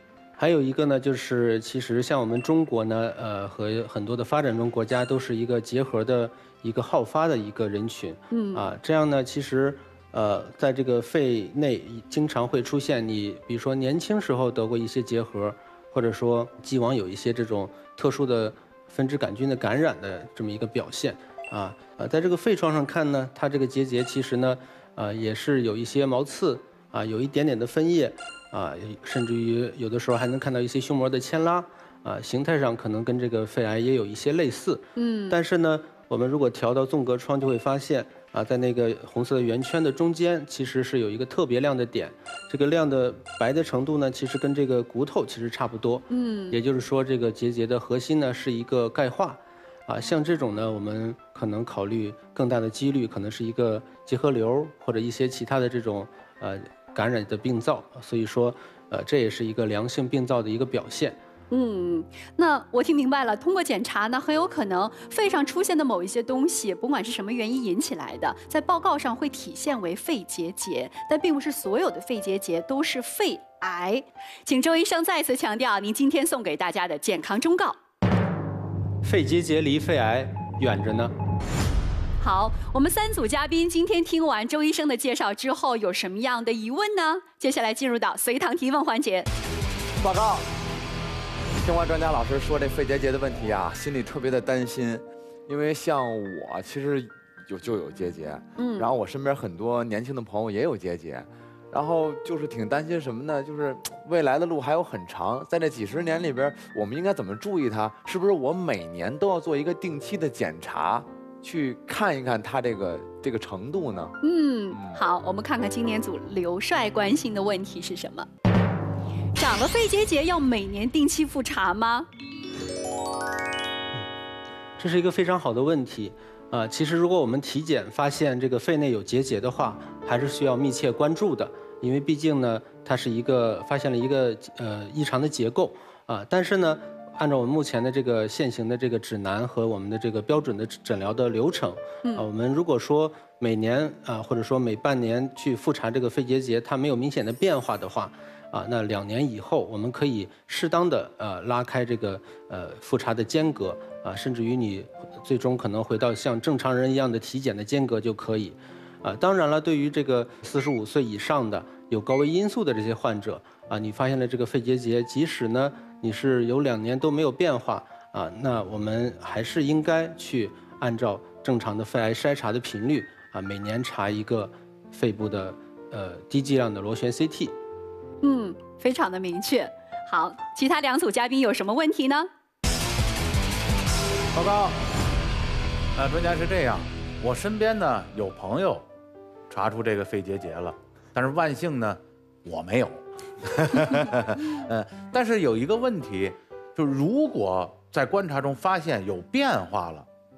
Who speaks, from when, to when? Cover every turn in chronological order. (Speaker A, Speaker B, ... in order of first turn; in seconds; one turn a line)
Speaker A: 0.4-61.2
Speaker B: 8.3-8.6
Speaker B: 35.0-35.3
Speaker B: 46.1-46.5
Speaker B: 61.5-77.8
Speaker A: 79.0-81.1
Speaker B: 82.2-89.3
Speaker C: 90.0-90.5
Speaker C: 91.6-114.1
Speaker B: 98.6-98.9
Speaker B: 114.2-118.3
Speaker C: 114.7-115.0
Speaker B: 119.4-122.1
Speaker A: 124.8-177.5
Speaker B: 178.2-182.3
Speaker D: 184.3-184.8
Speaker D: 185.9-188.8
Speaker D: 189.5-200.1